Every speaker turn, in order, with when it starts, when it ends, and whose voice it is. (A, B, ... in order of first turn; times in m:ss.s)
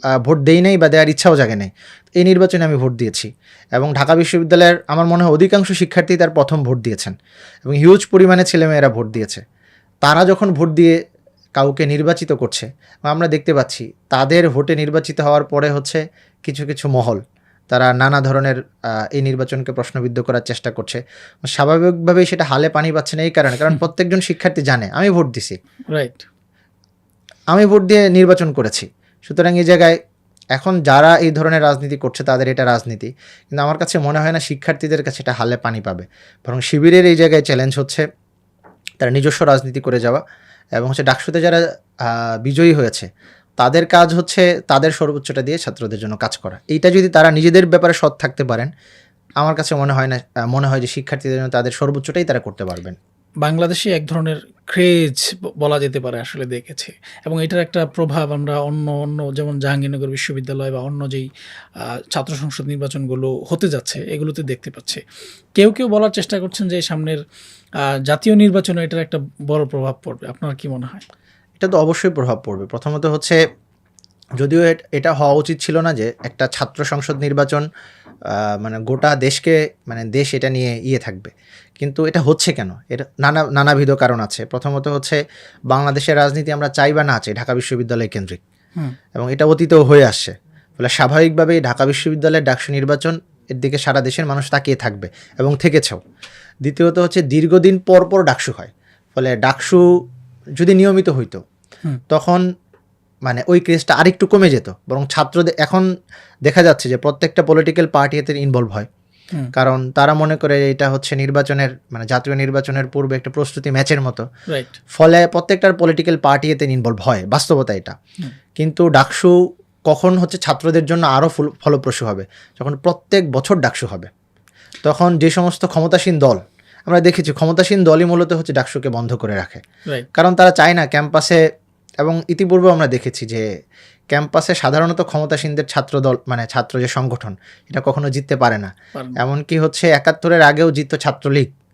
0:00.2-0:09.4 A
0:10.0-0:11.0 A
0:11.6-0:18.6 A
0:19.1-0:25.6 A
0:25.9-0:26.3 B
0:27.5-0:30.0 A
0:30.6-0:38.0 A
0:39.0-0:40.2 A
0:40.8-0:43.1 A
0:43.6-0:48.7 A
0:49.4-0:53.0 A
0:53.4-1:01.3 B
1:01.8-1:05.0 B
1:05.6-1:07.2 B
1:07.9-1:11.0 B
1:11.6-1:13.4 A
1:14.4-1:17.6 A
1:18.3-1:25.2 A
1:25.7-1:28.4 A
1:29.2-1:36.0 A
1:36.6-1:39.9 A
1:40.6-1:41.4 A
1:42.1-1:42.4 A
1:43.3-1:45.9 A
1:46.5-1:48.9 A
1:49.6-1:54.2 A
1:54.5-1:54.8 B
1:55.0-1:58.0 A
1:58.6-1:59.3 A
1:59.9-2:04.1 A
2:04.8-2:09.6 A
2:10.2-2:11.4 A
2:12.0-2:13.4 A
2:14.1-2:21.5 A